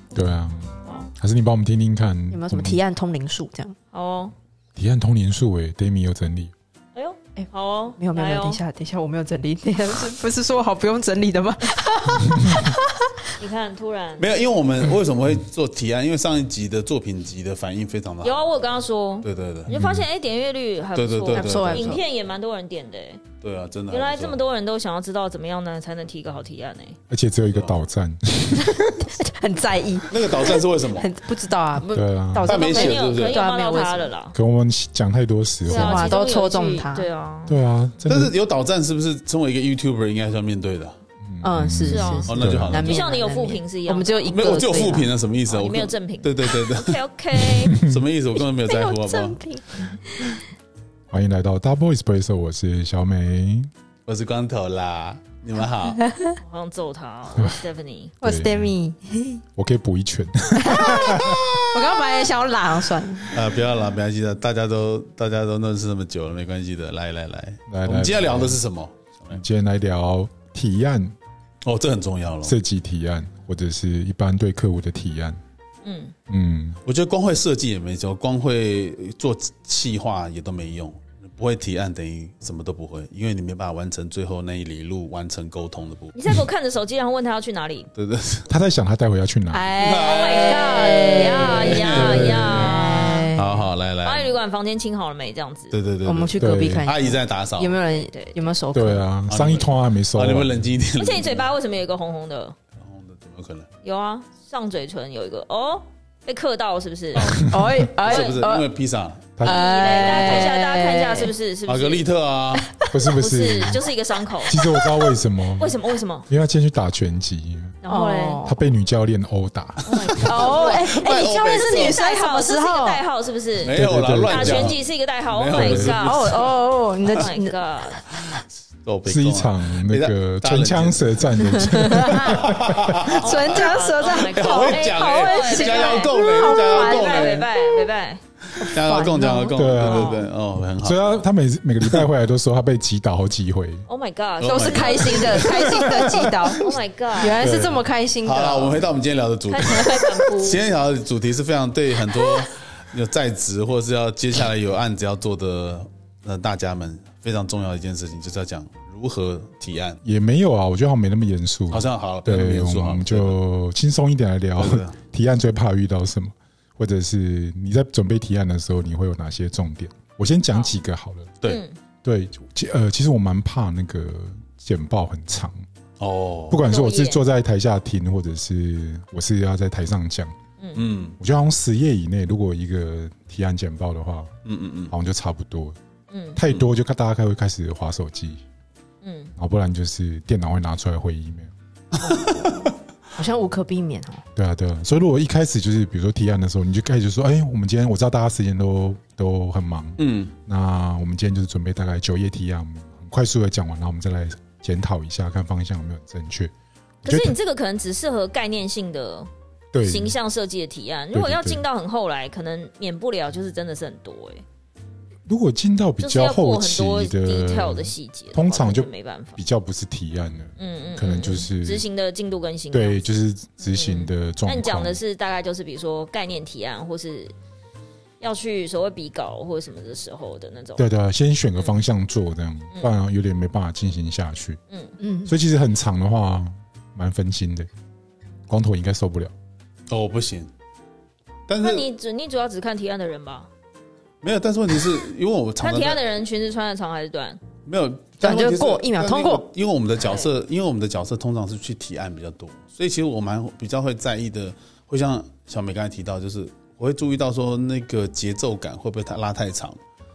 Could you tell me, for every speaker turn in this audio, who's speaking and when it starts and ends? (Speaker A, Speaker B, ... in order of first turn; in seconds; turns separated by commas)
Speaker A: 0.1-2.8, Speaker B: 2.3-3.8, Speaker C: 3.9-4.3, Speaker A: 4.8-6.5, Speaker C: 7.0-8.6, Speaker B: 7.4-13.2, Speaker C: 13.4-14.3, Speaker D: 14.2-18.5, Speaker C: 18.2-23.2, Speaker D: 19.2-19.7, Speaker A: 19.7-20.1, Speaker D: 20.9-22.0, Speaker B: 21.3-22.0, Speaker D: 23.4-24.4, Speaker C: 23.9-27.0, Speaker A: 27.1-29.1, Speaker D: 27.5-27.8, Speaker B: 28.6-34.1, Speaker D: 30.1-31.1, Speaker A: 31.9-32.5, Speaker D: 32.4-33.4, Speaker C: 32.5-34.4, Speaker A: 34.3-36.2, Speaker C: 35.7-37.6, Speaker B: 35.7-37.1, Speaker A: 37.5-38.3, Speaker D: 38.1-41.0, Speaker A: 41.3-42.9, Speaker B: 41.4-45.1, Speaker C: 41.9-44.6, Speaker D: 42.3-43.0, Speaker D: 44.3-47.0, Speaker C: 45.5-47.8, Speaker A: 47.7-48.0, Speaker D: 47.7-49.4, Speaker B: 48.5-50.4, Speaker A: 51.1-53.7, Speaker D: 54.1-56.0, Speaker B: 56.0-56.4, Speaker C: 56.4-58.1, Speaker A: 57.3-57.6, Speaker A: 58.2-58.7, Speaker B: 58.2-59.4, Speaker A: 59.6-61.4, Speaker B: 60.6-63.3, Speaker D: 61.0-61.9, Speaker D: 63.3-69.4, Speaker A: 67.7-68.6, Speaker A: 69.3-71.2, Speaker D: 71.6-72.5, Speaker A: 72.4-75.4, Speaker C: 75.8-76.1, Speaker A: 76.3-76.8, Speaker D: 76.9-86.2, Speaker C: 86.2-87.9, Speaker D: 88.0-88.5, Speaker A: 88.5-89.8, Speaker B: 89.5-93.6, Speaker D: 89.8-94.3, Speaker C: 90.0-93.3, Speaker A: 91.9-92.8, Speaker C: 94.0-95.8, Speaker D: 95.7-97.8, Speaker B: 96.0-99.1, Speaker A: 96.4-96.9, Speaker C: 97.9-98.4, Speaker A: 98.7-100.7, Speaker D: 99.3-101.5, Speaker C: 101.0-102.6, Speaker D: 102.8-103.7, Speaker C: 103.8-107.4, Speaker D: 107.2-107.4, Speaker B: 107.3-108.7, Speaker A: 107.4-107.9, Speaker D: 108.0-109.3, Speaker C: 108.1-108.4, Speaker A: 109.4-109.6, Speaker B: 109.4-111.3, Speaker C: 109.5-112.0, Speaker D: 110.0-110.5, Speaker D: 111.7-112.7, Speaker B: 112.6-113.0, Speaker A: 112.9-113.8, Speaker C: 113.1-114.6, Speaker A: 114.5-115.8, Speaker B: 114.5-115.2, Speaker C: 115.6-116.3, Speaker A: 116.3-117.8, Speaker C: 117.8-118.5, Speaker B: 117.9-118.6, Speaker A: 118.4-120.3, Speaker C: 119.8-126.5, Speaker D: 120.0-122.0, Speaker B: 120.2-123.0, Speaker D: 123.6-127.1, Speaker A: 123.7-124.8, Speaker A: 125.5-126.0, Speaker B: 125.8-127.6, Speaker C: 127.0-128.0, Speaker D: 128.1-137.8, Speaker A: 129.1-133.1, Speaker B: 131.4-132.5, Speaker B: 133.0-137.4, Speaker C: 133.2-138.2, Speaker D: 138.6-141.2, Speaker B: 138.6-139.6, Speaker A: 139.5-140.2, Speaker C: 139.8-140.3, Speaker A: 140.8-143.9, Speaker C: 143.9-145.8, Speaker D: 144.4-146.6, Speaker B: 144.4-148.8, Speaker C: 146.5-147.4, Speaker A: 147.4-147.9, Speaker D: 148.2-160.0, Speaker C: 149.5-150.6, Speaker B: 149.6-150.3, Speaker B: 152.2-152.4, Speaker A: 160.0-171.3, Speaker D: 161.7-163.4, Speaker D: 164.6-164.9, Speaker C: 171.4-171.8, Speaker A: 172.0-175.6, Speaker D: 176.0-176.6, Speaker A: 176.5-180.3, Speaker C: 176.7-177.2, Speaker D: 180.8-181.2, Speaker A: 181.2-184.3, Speaker D: 184.4-184.9, Speaker A: 184.9-185.8, Speaker C: 186.1-186.4, Speaker A: 186.4-188.4, Speaker C: 189.0-189.3, Speaker A: 189.4-191.5, Speaker D: 191.9-192.7, Speaker B: 193.2-194.2, Speaker A: 194.4-206.5, Speaker D: 200.0-200.3, Speaker A: 207.0-207.3, Speaker C: 207.1-209.3, Speaker A: 209.7-210.2, Speaker C: 209.8-214.4, Speaker A: 211.1-211.6, Speaker A: 215.3-221.8, Speaker C: 216.0-219.4, Speaker C: 220.6-223.0, Speaker A: 222.7-225.0, Speaker C: 223.6-227.3, Speaker C: 228.2-230.9, Speaker A: 230.8-234.6, Speaker C: 234.7-234.9, Speaker B: 235.0-235.3, Speaker A: 235.3-237.7, Speaker A: 238.5-239.3, Speaker D: 239.9-240.5, Speaker D: 241.5-241.9, Speaker C: 241.6-243.5, Speaker D: 244.2-246.0, Speaker C: 245.6-247.4, Speaker D: 247.7-259.8, Speaker B: 248.2-249.4, Speaker C: 250.0-250.3